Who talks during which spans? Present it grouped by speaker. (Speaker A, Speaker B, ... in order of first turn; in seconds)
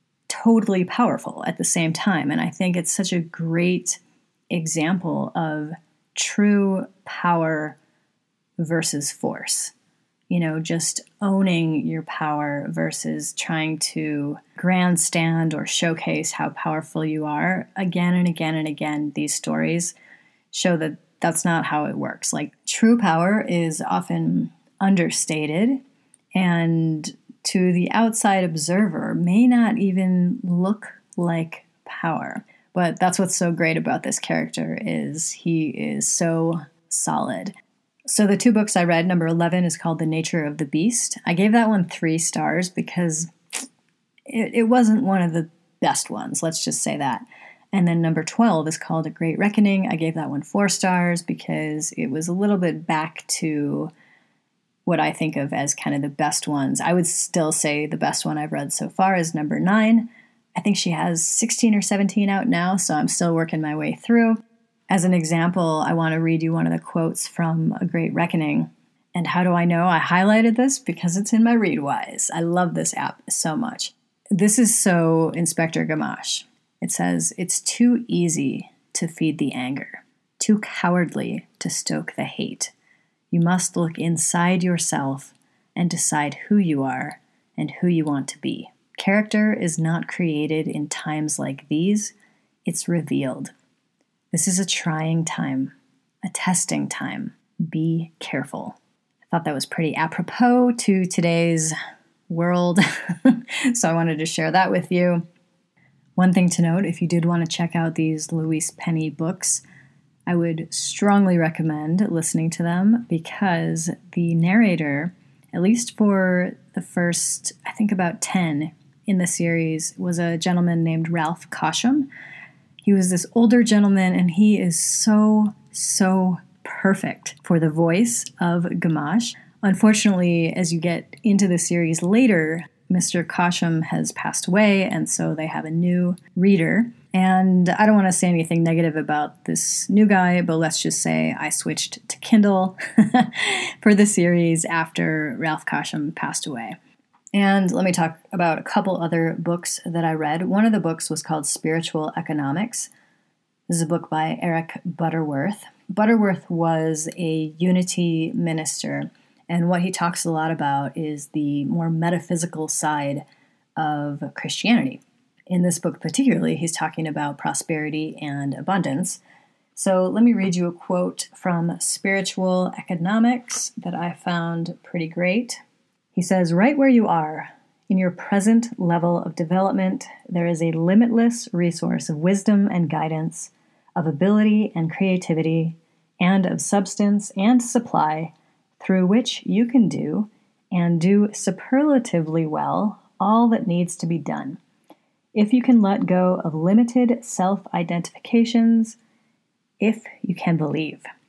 Speaker A: 0.3-4.0, 4.5-7.8, 8.6-9.7, 10.3-19.9, 20.5-25.8, 26.3-37.5, 38.1-43.3, 44.3-53.9, 54.9-82.7, 83.3-92.1, 92.6-93.5, 94.3-101.7, 102.3-105.2, 106.2-109.6, 110.3-122.1, 122.8-146.8, 147.3-152.9, 153.7-163.2, 163.8-169.2, 169.7-175.6, 176.1-194.6, 195.3-199.0, 199.8-201.1